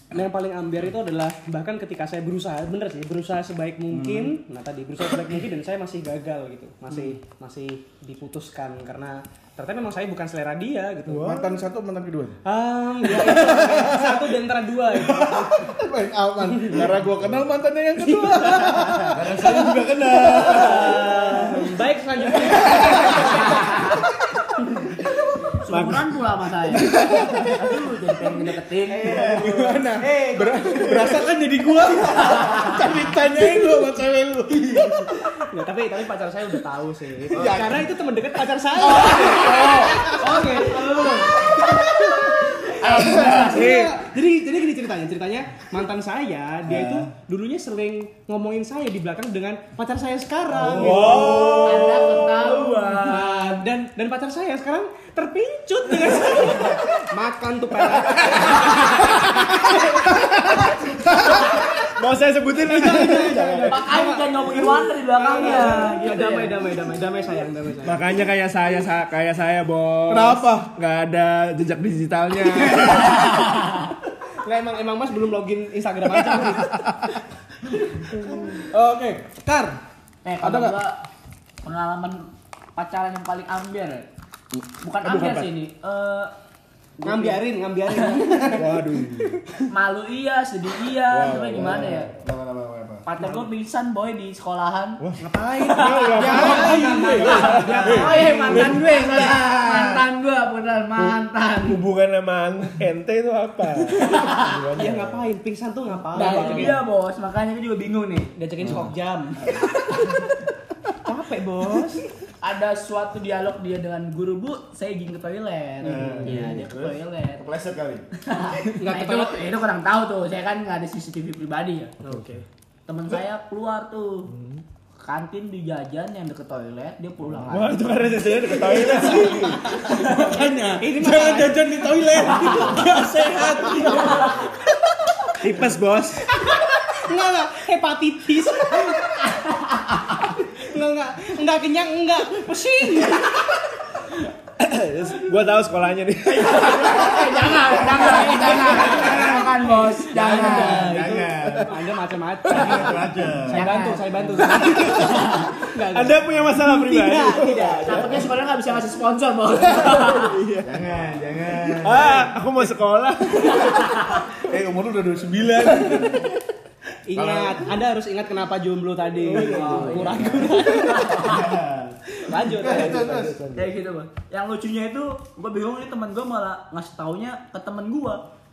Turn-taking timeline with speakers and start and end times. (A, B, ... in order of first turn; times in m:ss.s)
0:00.1-0:11.2 A
0:03.9-0:04.3 B
0:11.1-0:11.7 C
0:11.2-0:12.4 D
0:12.4-0:15.7 A
0:13.0-0:14.4 D
0:14.9-0:21.0 D
0:16.4-0:17.0 A
0:18.0-0:19.1 A
0:19.0-0:21.6 B
0:20.1-0:23.6 A
0:22.4-0:23.6 B
0:23.2-0:24.0 E
0:24.6-0:25.0 A
0:25.5-0:29.2 E
0:25.7-0:26.1 C
0:26.8-0:27.5 D
0:28.8-0:30.1 B
0:29.2-0:35.2 D
0:30.0-0:30.6 A
0:30.7-0:31.3 B
0:32.4-0:32.6 E
0:35.5-0:42.6 A
0:37.3-0:37.8 D
0:37.4-0:37.7 B
0:38.8-0:41.1 D
0:39.2-0:39.7 B
0:40.6-0:41.6 E
0:41.6-0:42.2 D
0:42.5-0:43.8 E
0:42.8-0:43.6 B
0:42.9-0:44.0 D
0:43.4-0:51.3 A
0:46.6-0:47.1 B
0:50.5-0:52.0 B
0:50.6-0:53.0 C
0:51.0-0:51.7 D
0:51.1-0:53.6 E
0:53.0-1:00.7 A
0:58.0-0:58.4 C
0:59.1-1:03.9 C
1:02.6-1:08.0 A
1:03.6-1:06.6 E
1:07.8-1:13.3 C
1:10.1-1:10.7 D
1:13.0-1:13.7 E
1:14.4-1:16.8 A
1:16.4-1:16.6 C
1:18.5-1:19.8 D
1:20.2-1:21.0 E
1:20.4-1:20.8 D
1:21.6-1:22.2 E
1:22.8-1:24.0 E
1:24.8-1:26.3 E
1:25.0-1:25.5 C
1:27.0-1:27.4 E
1:27.0-1:29.6 A
1:28.5-1:29.4 C
1:29.7-1:32.1 E
1:31.1-1:32.0 C
1:31.5-1:33.1 B
1:33.0-1:35.0 E
1:33.2-1:33.5 A
1:35.0-1:38.2 C
1:35.2-1:38.8 A
1:36.2-1:36.7 E
1:36.2-1:38.8 D
1:37.4-1:41.8 E
1:38.9-1:40.0 B
1:41.0-1:45.3 C
1:44.0-1:44.5 E
1:44.8-1:46.8 A
1:46.1-1:48.3 E
1:46.2-1:46.7 C
1:48.4-1:49.9 A
1:51.0-1:52.0 A
1:52.4-1:57.4 E
1:55.8-1:58.0 B
1:55.8-1:56.5 A
1:58.2-2:01.9 E
1:58.8-1:59.4 A
2:02.0-2:02.4 A
2:02.9-2:04.3 E
2:04.3-2:04.6 C
2:05.0-2:10.4 E
2:07.5-2:09.9 C
2:08.7-2:09.1 D
2:09.6-2:14.7 D
2:10.0-2:12.7 A
2:12.3-2:12.8 E
2:13.8-2:14.3 E
2:15.4-2:16.3 C
2:16.4-2:23.6 A
2:19.3-2:20.0 E
2:24.6-2:27.1 C
2:26.3-2:31.2 E
2:26.9-2:29.5 B
2:27.9-2:38.2 A
2:30.1-2:31.7 B
2:31.4-2:31.7 C
2:32.4-2:33.7 B
2:33.5-2:34.0 E
2:34.8-2:35.6 E
2:35.9-2:38.3 C
2:37.8-2:40.4 E
2:39.5-2:41.0 C
2:40.6-2:42.3 B
2:41.6-2:44.2 C
2:43.4-2:44.2 E
2:44.4-2:46.3 D
2:45.8-2:46.1 C
2:47.1-2:51.1 A
2:47.1-2:47.7 B
2:49.2-2:50.3 C
2:49.3-2:51.5 E
2:49.5-2:50.5 B
2:51.1-2:53.4 B
2:52.2-2:53.0 A
2:52.6-2:53.7 C
2:53.5-2:58.2 E